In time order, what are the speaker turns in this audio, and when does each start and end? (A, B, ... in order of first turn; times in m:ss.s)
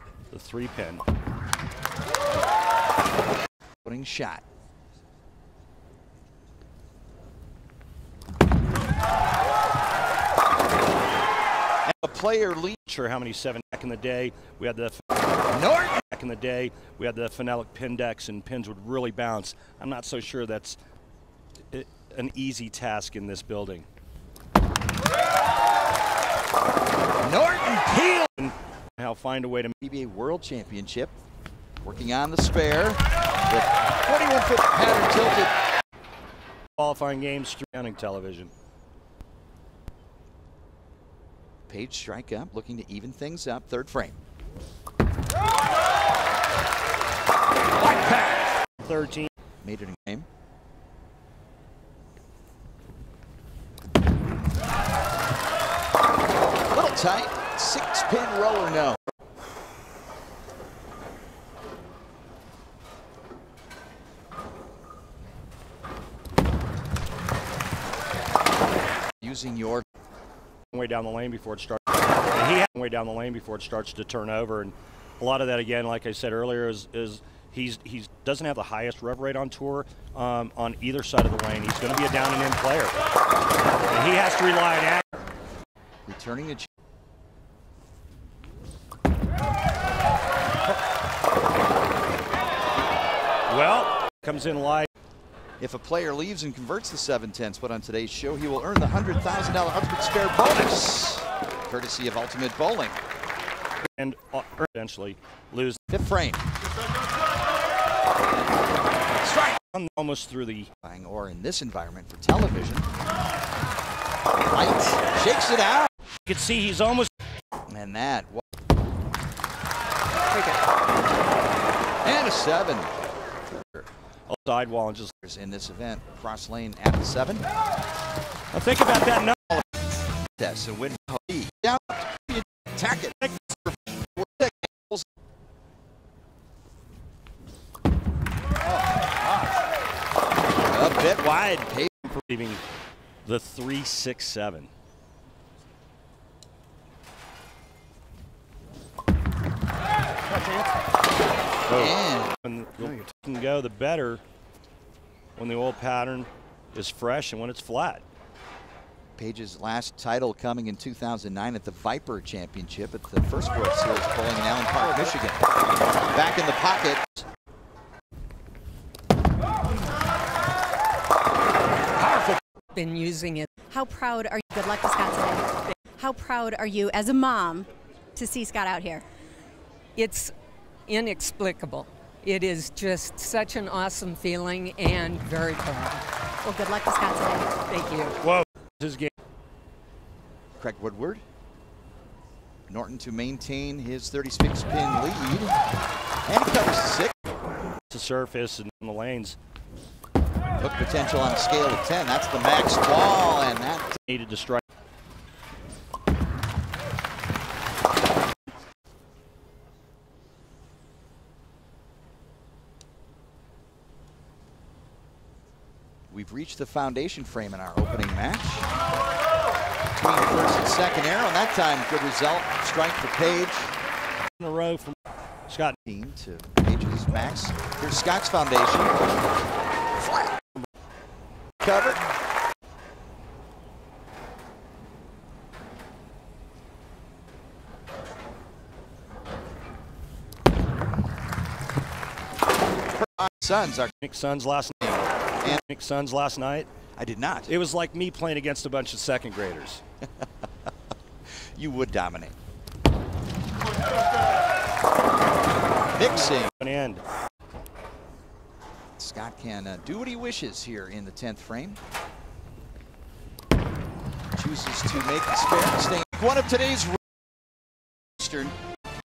0:00.3-0:01.0 A
0:03.8-0:04.4 B
0:11.8-0:12.8 B
0:12.8-0:15.0 A
0:15.5-0:16.0 B
0:16.1-0:20.8 A
0:21.7-0:23.9 A
0:27.2-0:28.0 B
0:27.9-0:29.7 A
0:29.8-0:31.2 B
0:31.8-0:35.5 B
0:36.8-0:38.5 A
0:41.7-0:44.2 B
0:47.8-0:49.3 A
0:49.6-0:50.3 B
0:56.7-0:59.0 B
1:09.2-1:09.8 B
1:10.7-1:23.0 A
1:23.9-1:25.0 A
1:26.0-1:26.7 B
1:33.5-1:34.9 A
1:35.6-1:43.0 B
1:43.9-1:45.8 A
1:45.9-1:46.4 B
1:49.2-1:49.6 B
1:49.7-1:50.7 A
1:50.8-1:52.9 B
1:54.5-1:55.9 B
1:56.2-1:57.1 A
1:57.7-1:58.4 B
2:00.3-2:00.6 C
2:02.0-2:02.9 B
2:04.3-2:05.1 A
2:05.2-2:07.4 B
2:08.5-2:09.6 A
2:10.4-2:15.0 B
2:13.2-2:13.5 A
2:20.6-2:22.0 B
2:22.0-2:22.6 A
2:23.2-2:24.7 A
2:30.3-2:30.7 A
2:31.7-2:34.2 A
2:31.7-2:32.4 B
2:35.4-2:38.0 A
2:39.2-2:45.4 B
2:46.1-2:47.2 B
2:52.7-2:53.5 C
2:53.7-2:59.0 D
3:00.0-3:00.3 C
3:00.9-3:06.0 C
3:06.4-3:07.6 D
3:07.6-3:08.2 C
3:08.2-3:09.1 A
3:10.6-3:11.2 B
3:12.7-3:15.6 B
3:16.2-3:17.1 B
3:17.9-3:19.4 A
3:20.6-3:24.0 B
3:24.1-3:24.6 A
3:36.1-3:38.7 B
3:39.9-3:43.7 B
3:44.4-3:45.0 A
3:45.5-3:45.8 A
3:45.8-3:49.1 B
3:50.0-3:50.3 B
3:51.6-3:52.0 B
4:02.9-4:03.9 B
4:04.0-4:06.7 A
4:04.8-4:05.6 B
4:06.9-4:07.6 B
4:07.5-4:09.8 A
4:11.5-4:12.3 B
4:15.9-4:16.6 B
4:16.0-4:17.0 A
4:19.0-4:21.8 B
4:24.4-4:27.0 B
4:28.2-4:28.6 B